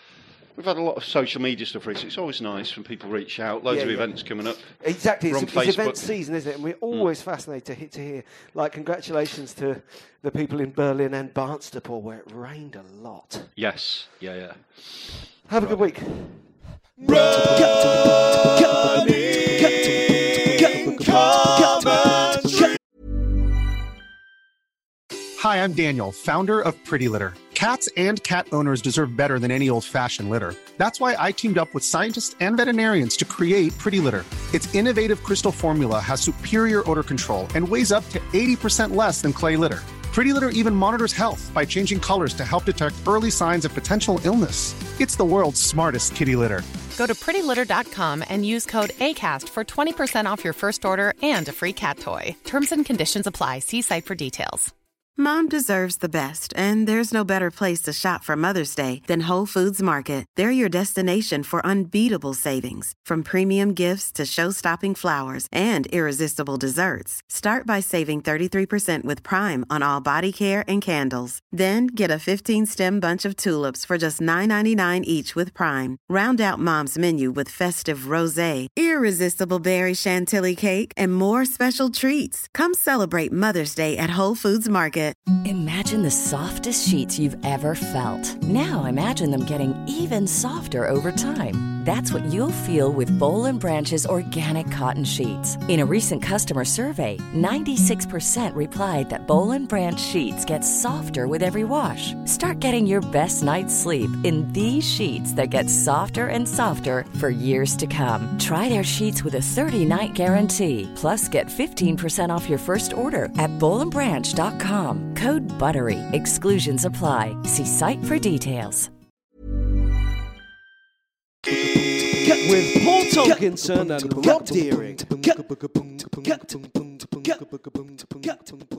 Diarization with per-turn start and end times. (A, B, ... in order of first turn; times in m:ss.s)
0:00.5-0:06.1 A
0:03.7-0:13.5 B
0:13.6-0:15.9 A
0:15.5-0:16.6 B
0:17.1-0:17.6 A
0:18.8-0:19.4 B
0:21.2-0:22.1 B
0:25.4-0:46.7 C
0:46.9-0:54.7 D
0:55.2-1:25.2 E
1:25.4-1:58.9 F
2:02.2-2:07.4 B
2:08.0-2:08.5 B